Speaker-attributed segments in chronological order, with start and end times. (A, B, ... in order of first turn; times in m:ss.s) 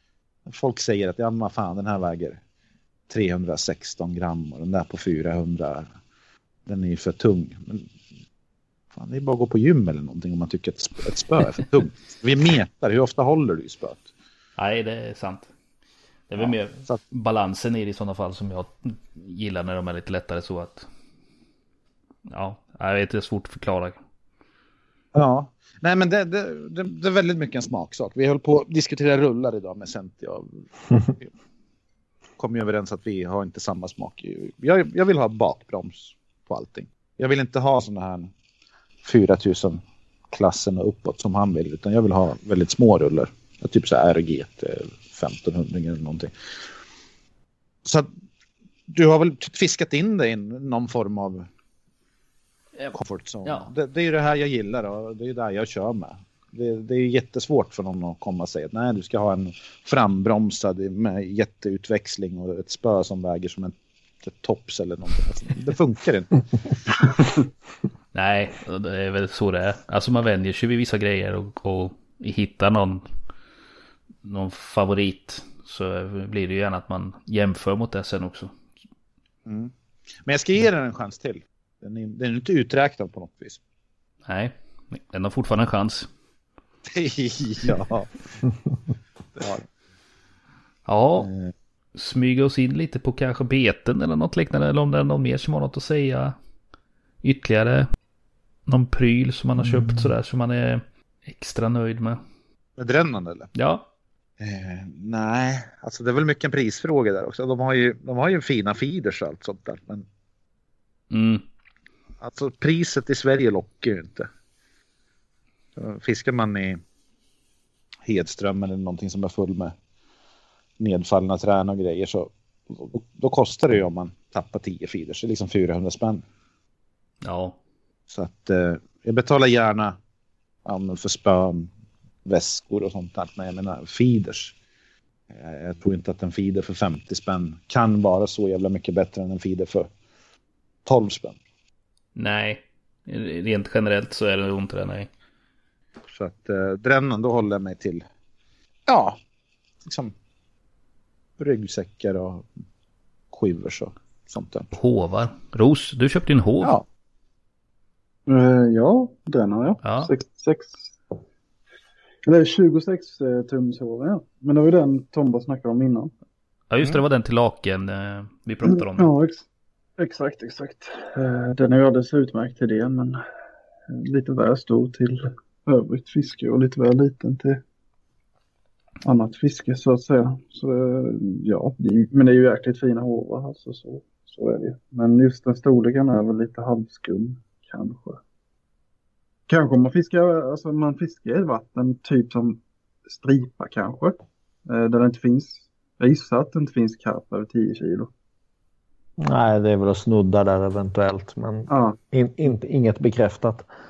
0:00.5-0:02.4 A
0:03.1-0:05.9 A
0:06.7-0:07.9 A
0:09.0-0:14.1 A
0:14.6-0:15.5 B
0:16.3-0:20.9 B
0:16.4-0:17.0 A
0:22.3-0:24.0 B
0:25.1-0:31.3 A
0:32.4-0:38.3 A
0:39.0-0:46.3 A
0:48.9-0:51.5 A
0:52.9-1:07.3 A
1:08.1-1:13.1 B
1:14.2-1:18.5 B
1:19.5-1:19.7 A
1:20.2-1:23.6 A
1:24.3-1:26.1 B
1:26.9-1:28.1 A
1:29.4-1:29.6 A
1:30.9-1:31.3 B
1:31.2-1:31.5 A
1:32.0-1:36.4 B
1:37.2-1:37.9 B
1:38.7-1:42.2 B
1:42.8-1:43.5 A
1:43.5-1:43.9 B
1:44.4-1:50.0 A
1:51.1-1:51.4 B
1:52.2-1:54.3 A
1:55.8-1:56.8 A
1:58.1-1:59.7 A
2:00.8-2:06.2 A
2:07.2-2:07.6 B
2:08.1-2:10.0 A
2:10.6-2:11.7 A
2:12.3-2:14.6 A
2:15.3-2:19.9 A
2:20.8-2:21.4 A
2:22.2-2:25.1 B
2:26.1-2:28.0 A
2:28.9-2:29.2 A
2:29.8-2:30.1 A
2:31.4-2:32.5 A
2:33.3-2:34.7 A
2:34.7-2:36.8 B
2:36.6-2:36.9 A
2:38.3-2:40.9 C
2:39.8-2:40.1 B
2:42.3-2:46.1 C
2:46.7-2:49.1 B
2:49.0-2:49.4 C
2:50.0-2:53.2 C
2:53.9-2:57.6 C
2:59.0-3:08.2 C
3:09.5-3:18.1 C
3:19.2-3:23.7 D
3:21.7-3:22.0 C